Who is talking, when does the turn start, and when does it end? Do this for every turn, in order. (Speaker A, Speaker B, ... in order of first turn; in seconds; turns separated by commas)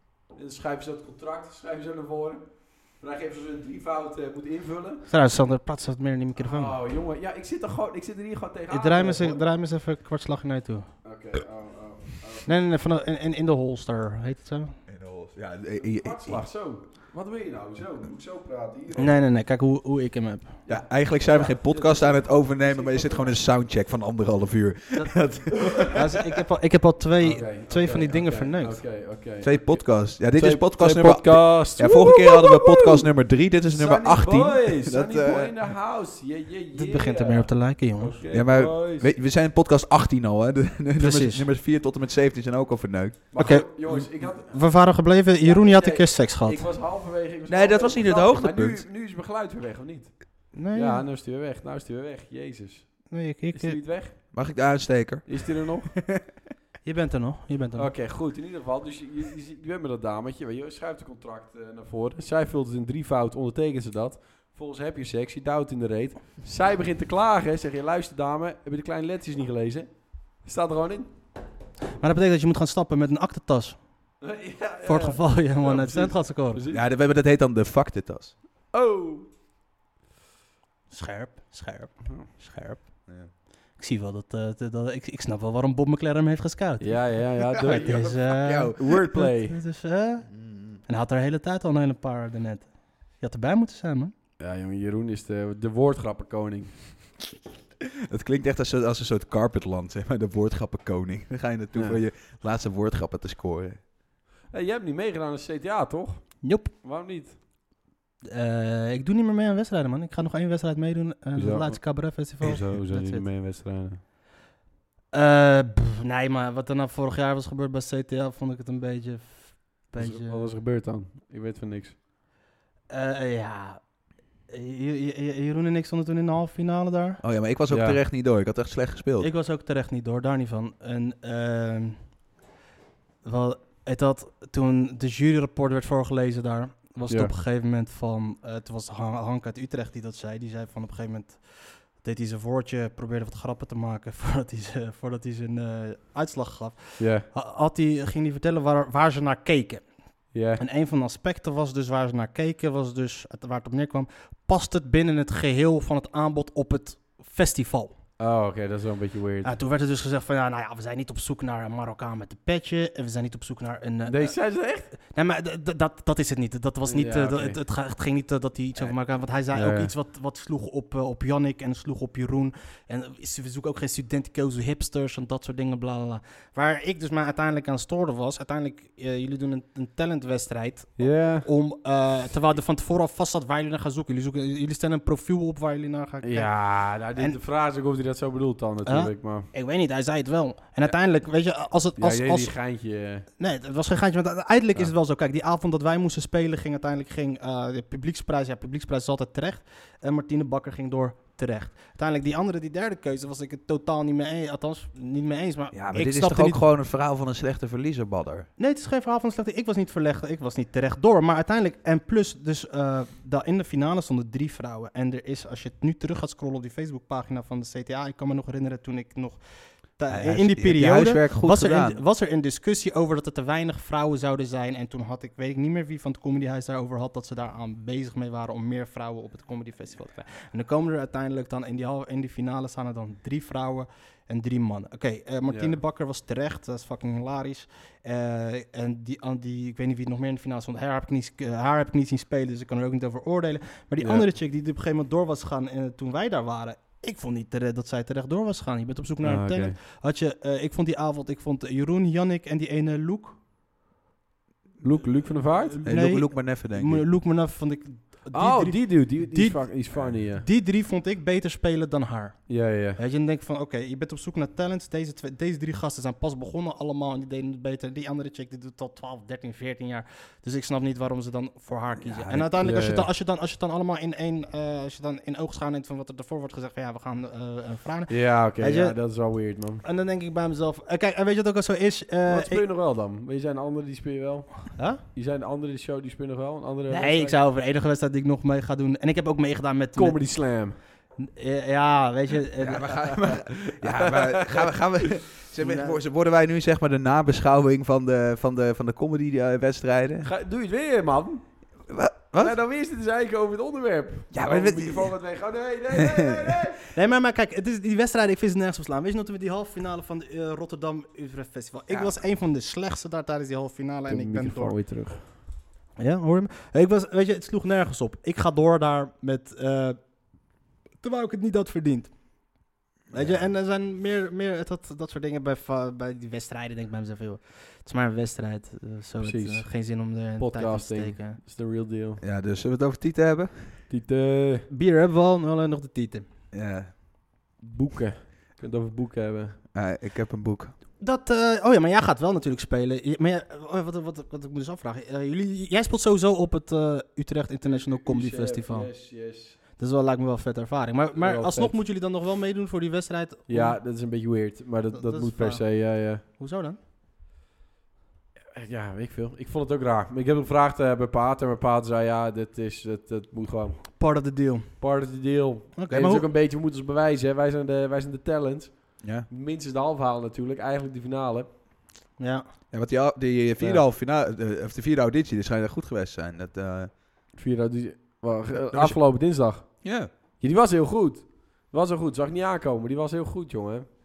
Speaker A: 0.3-5.0, Speaker B: 5.1-6.8, Speaker A: 6.4-9.4, Speaker B: 8.7-10.9, Speaker A: 11.0-12.5, Speaker B: 12.5-14.8, Speaker C: 14.9-16.5, Speaker A: 15.8-19.2, Speaker B: 19.0-20.6, Speaker A: 20.6-23.4, Speaker C: 20.7-26.0, Speaker B: 24.9-28.9, Speaker A: 27.2-33.1, Speaker C: 29.4-35.6, Speaker A: 33.7-39.1, Speaker B: 36.7-38.2, Speaker C: 38.3-43.3, Speaker B: 41.0-41.5, Speaker A: 43.3-54.3, Speaker B: 43.4-46.7, Speaker C: 47.5-48.9, Speaker B: 50.5-51.1, Speaker B: 53.1-53.8, Speaker C: 54.3-56.2, Speaker A: 55.3-55.9, Speaker B: 56.8-57.9, Speaker A: 57.8-71.1, Speaker B: 72.0-74.3, Speaker A: 74.2-76.8, Speaker B: 74.8-76.6, Speaker C: 76.7-78.4, Speaker A: 78.7-79.3, Speaker B: 80.9-94.1, Speaker A: 86.8-89.6, Speaker C: 87.7-88.8, Speaker C: 90.3-90.8, Speaker A: 94.4-97.0, Speaker C: 98.1-103.8, Speaker A: 101.7-102.0, Speaker A: 104.5-107.4, Speaker B: 106.4-106.7, Speaker B: 108.2-113.3, Speaker A: 111.3-114.0, Speaker B: 115.1-120.6, Speaker A: 120.0-122.0, Speaker B: 122.9-127.2, Speaker C: 127.2-129.3, Speaker A: 127.7-128.0, Speaker B: 129.2-132.2, Speaker B: 133.2-158.0, Speaker A: 137.1-137.3, Speaker A: 147.0-147.3, Speaker A: 150.3-150.6, Speaker A: 158.2-159.5, Speaker B: 159.4-187.4, Speaker A: 164.1-164.9, Speaker A: 166.8-167.6, Speaker A: 169.5-169.9, Speaker A: 181.0-181.5, Speaker A: 186.2-189.5, Speaker B: 188.8-192.8, Speaker A: 192.0-193.3, Speaker B: 193.4-206.6, Speaker C: 205.7-208.5, Speaker B: 208.6-253.4, Speaker C: 220.1-222.0, Speaker A: 235.5-235.8, Speaker A: 244.0-244.3, Speaker A: 249.2-249.8, Speaker A: 254.8-255.8, Speaker B: 255.5-282.6, Speaker C: 255.8-257.1, Speaker A: 258.3-260.5, Speaker A: 262.5-263.0, Speaker C: 272.0-272.6, Speaker A: 272.6-273.1, Speaker A: 278.1-279.8, Speaker A: 282.3-287.4, Speaker B: 284.8-285.0, Speaker B: 286.9-293.3, Speaker A: 289.9-290.8, Speaker C: 292.6-300.3, Speaker A: 293.3-294.7, Speaker B: 295.6-296.0, Speaker A: 300.2-306.8, Speaker C: 301.9-302.6, Speaker C: 304.3-305.2, Speaker B: 306.9-314.8, Speaker A: 314.1-315.3, Speaker B: 316.0-331.4, Speaker C: 323.1-323.5, Speaker A: 329.2-332.2, Speaker C: 332.2-333.8, Speaker A: 333.9-334.7, Speaker B: 334.7-336.3, Speaker C: 336.5-337.0, Speaker A: 337.6-339.6, Speaker C: 339.7-340.7, Speaker B: 341.0-349.0, Speaker A: 347.6-349.6, Speaker B: 349.5-354.1, Speaker A: 351.1-351.8, Speaker A: 353.5-356.2, Speaker B: 354.9-356.8, Speaker A: 358.5-364.0, Speaker B: 364.0-364.8, Speaker A: 364.8-371.5, Speaker B: 365.8-366.3, Speaker C: 369.0-369.3, Speaker B: 372.2-372.5, Speaker C: 372.7-376.9, Speaker A: 373.6-373.9, Speaker A: 377.3-383.9, Speaker C: 378.7-379.2, Speaker C: 379.8-380.1